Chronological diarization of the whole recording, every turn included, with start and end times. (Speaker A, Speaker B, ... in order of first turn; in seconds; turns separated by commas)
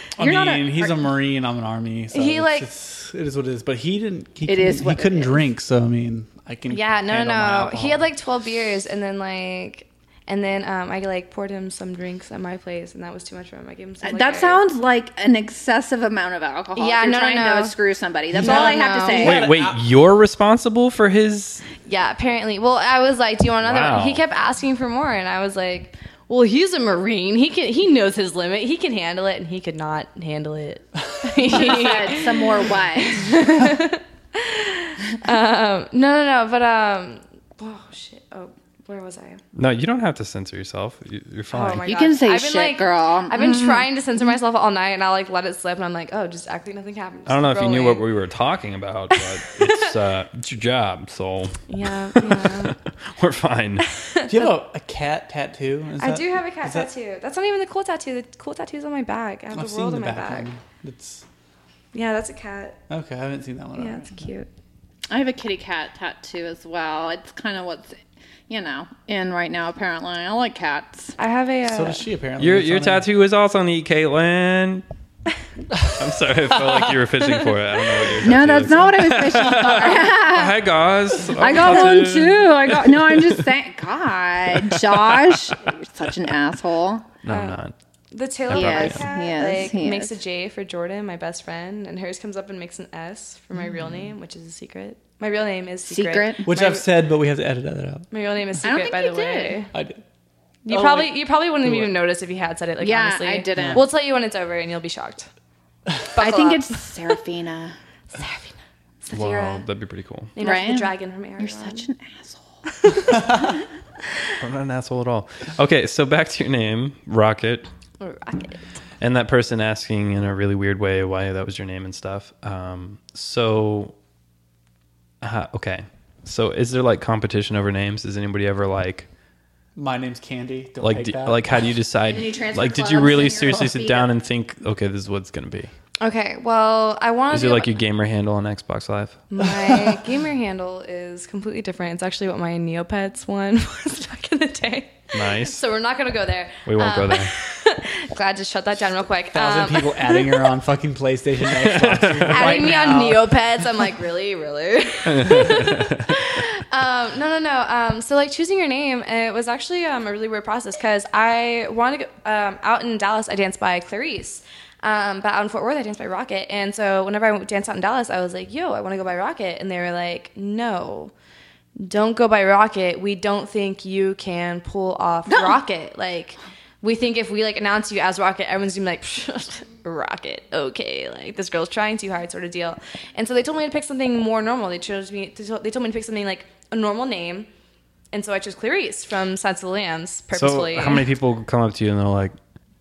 Speaker A: 0.2-8.0, Speaker B: 0.2-1.0, Speaker C: 2.1-2.7, Speaker B: 4.5-5.4, Speaker C: 6.7-14.6, Speaker B: 14.0-19.4, Speaker C: 16.7-17.7, Speaker A: 18.3-19.8, Speaker C: 18.4-19.4, Speaker D: 19.1-21.6, Speaker C: 21.8-39.4, Speaker D: 23.6-24.2, Speaker B: 31.4-33.4, Speaker D: 39.5-41.9, Speaker C: 41.5-48.0, Speaker B: 41.8-43.9, Speaker D: 47.3-51.6, Speaker C: 49.1-49.9, Speaker C: 51.7-52.8, Speaker D: 52.1-53.9, Speaker C: 54.0-54.3, Speaker A: 54.3-56.9, Speaker C: 56.0-60.5, Speaker A: 59.5-61.2, Speaker C: 61.9-62.8, Speaker A: 62.9-64.3, Speaker C: 63.8-64.5, Speaker B: 65.1-68.0, Speaker B: 68.5-71.1, Speaker C: 71.2-72.0, Speaker A: 71.7-73.1, Speaker D: 72.4-74.8, Speaker D: 75.9-83.5, Speaker B: 78.2-80.6, Speaker B: 81.3-87.0, Speaker D: 84.5-85.5, Speaker D: 87.2-87.7, Speaker C: 87.2-96.8, Speaker D: 88.5-89.0, Speaker B: 88.5-90.1, Speaker B: 95.9-96.5, Speaker A: 96.4-98.0, Speaker C: 98.1-99.7, Speaker B: 98.6-99.6, Speaker A: 99.7-100.0, Speaker C: 100.6-105.3, Speaker A: 100.7-101.9, Speaker B: 102.8-103.9, Speaker A: 103.5-103.8, Speaker C: 106.1-106.9, Speaker B: 106.1-107.7, Speaker C: 108.1-109.6, Speaker D: 109.1-110.3, Speaker C: 110.3-111.8, Speaker B: 110.4-112.4, Speaker C: 112.8-113.2, Speaker D: 114.4-117.7, Speaker C: 118.0-118.6, Speaker D: 119.0-123.9, Speaker D: 125.2-129.1, Speaker A: 129.8-131.6, Speaker D: 130.8-135.7, Speaker B: 132.1-134.1, Speaker C: 136.0-137.7, Speaker D: 137.3-139.2, Speaker C: 139.3-150.5, Speaker D: 145.1-145.6, Speaker D: 146.7-147.3, Speaker A: 149.3-153.3, Speaker D: 151.6-152.7, Speaker C: 152.3-171.1, Speaker D: 155.1-156.1, Speaker C: 171.8-187.5, Speaker B: 175.3-175.6, Speaker C: 188.1-191.1, Speaker D: 190.3-192.3